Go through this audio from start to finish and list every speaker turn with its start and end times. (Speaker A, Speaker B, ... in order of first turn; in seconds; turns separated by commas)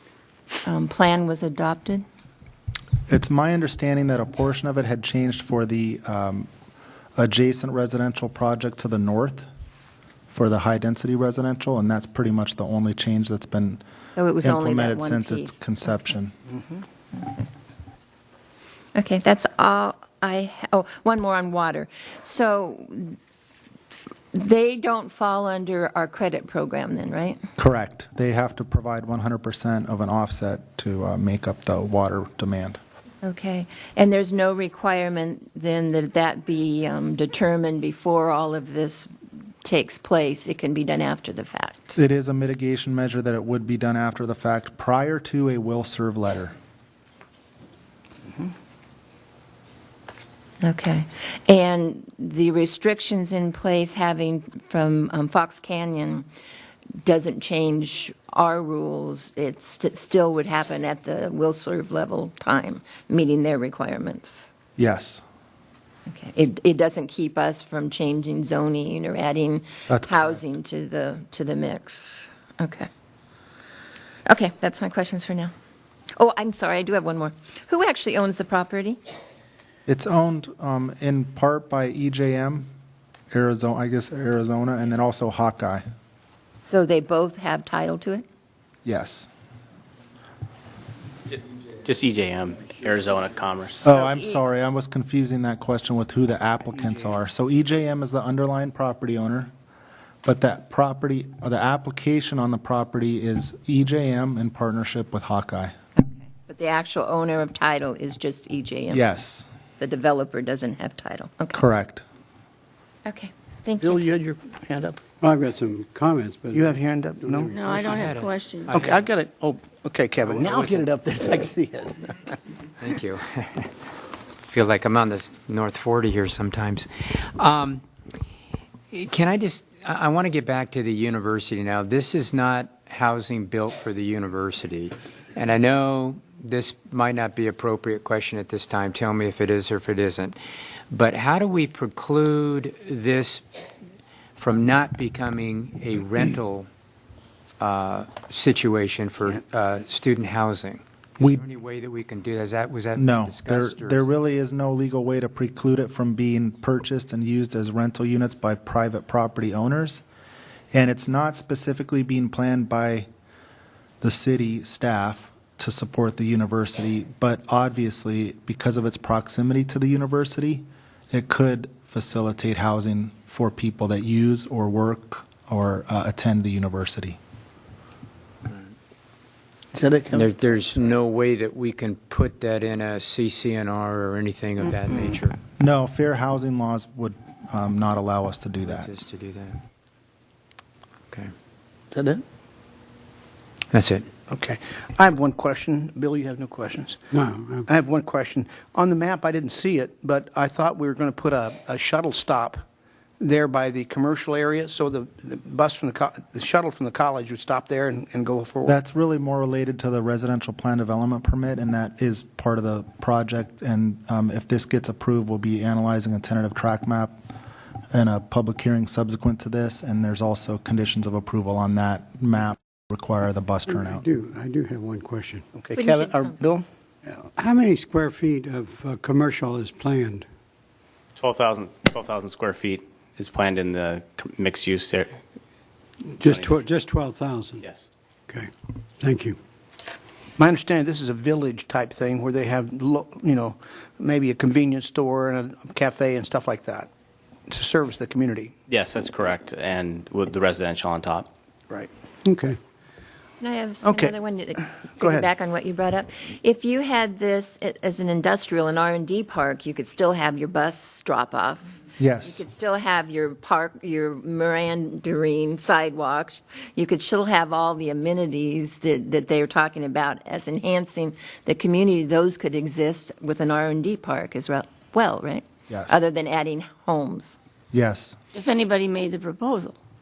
Speaker A: 0.7-2.0, Speaker B: 3.1-6.5, Speaker B: 7.2-9.5, Speaker B: 10.3-13.8, Speaker A: 14.1-15.9, Speaker B: 14.4-16.3, Speaker A: 17.2-17.4, Speaker A: 18.9-23.2, Speaker A: 24.3-27.4, Speaker B: 27.6-32.8, Speaker A: 33.2-39.1, Speaker A: 39.6-42.0, Speaker B: 42.0-46.5, Speaker A: 50.6-56.3, Speaker A: 57.0-64.5, Speaker B: 64.8-65.2, Speaker A: 66.1-72.9, Speaker B: 69.9-70.3, Speaker A: 74.3-75.5, Speaker A: 76.2-79.0, Speaker B: 79.9-82.7, Speaker B: 83.3-85.8, Speaker A: 86.6-88.2, Speaker B: 88.8-89.3, Speaker C: 91.3-93.8, Speaker B: 93.8-99.5, Speaker A: 93.8-94.4, Speaker B: 100.2-105.7, Speaker A: 106.0-109.0, Speaker B: 108.9-109.5, Speaker A: 109.8-111.6, Speaker B: 111.5-112.0, Speaker A: 113.0-114.0, Speaker D: 113.8-115.0, Speaker E: 115.2-118.1, Speaker D: 116.5-117.5, Speaker F: 117.6-118.7, Speaker G: 117.8-119.0, Speaker D: 118.6-122.4, Speaker G: 120.3-120.8, Speaker G: 122.8-123.7, Speaker G: 124.5-127.8, Speaker G: 128.9-140.4, Speaker G: 140.9-143.4, Speaker G: 144.4-146.7, Speaker G: 147.6-154.1, Speaker B: 153.0-160.0, Speaker B: 160.7-163.1, Speaker B: 164.0-177.2, Speaker D: 179.7-180.3, Speaker G: 180.1-185.4, Speaker D: 184.9-185.2, Speaker B: 185.6-188.9, Speaker G: 188.7-189.6, Speaker D: 191.9-192.2, Speaker G: 193.7-194.1, Speaker D: 194.3-197.1, Speaker E: 197.1-197.7, Speaker D: 197.7-202.6, Speaker D: 203.2-208.8, Speaker B: 208.7-217.2, Speaker B: 217.9-224.0, Speaker E: 223.7-225.5, Speaker D: 225.5-226.7, Speaker A: 225.8-226.4, Speaker E: 227.1-230.3, Speaker C: 231.2-235.2, Speaker E: 236.1-237.7, Speaker C: 236.2-236.7, Speaker C: 237.6-237.8, Speaker E: 238.3-239.4, Speaker D: 240.4-246.9, Speaker D: 247.5-248.6, Speaker C: 248.7-251.3, Speaker E: 252.2-252.6, Speaker A: 253.4-277.4, Speaker D: 253.8-254.2, Speaker D: 255.0-255.3, Speaker B: 262.0-262.4, Speaker B: 275.7-276.0, Speaker B: 277.7-278.2, Speaker F: 278.3-279.8